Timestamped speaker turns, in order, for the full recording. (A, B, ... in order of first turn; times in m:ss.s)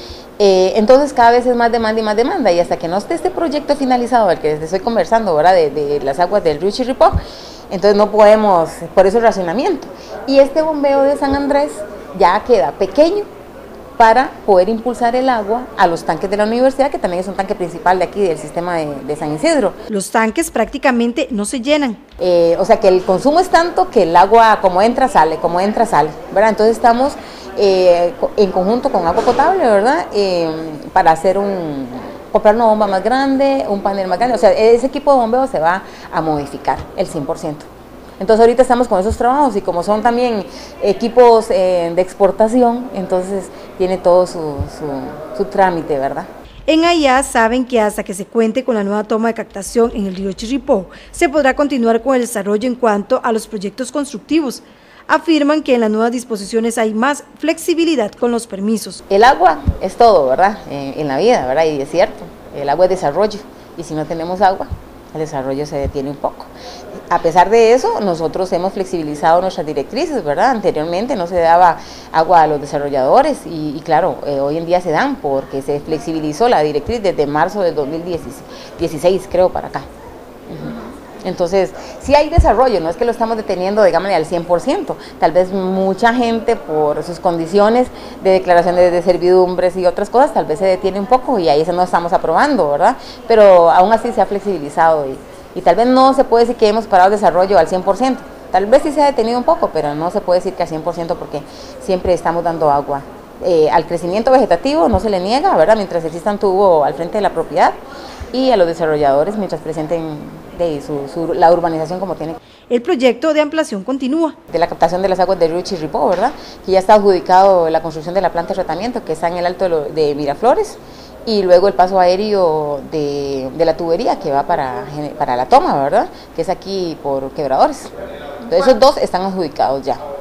0:00.4-0:07.2 A
0:07.7-0:13.3 A
0:14.0-0:19.8 A
0:19.9-0:22.0 B
0:22.2-0:37.6 A
0:38.2-0:46.3 A
0:46.7-0:59.0 B
0:59.1-1:06.5 A
1:07.1-1:19.8 A
1:20.5-1:47.8 A
1:48.3-1:52.4 A
1:52.7-1:54.4 B
1:54.5-2:07.9 A
2:08.4-2:10.0 A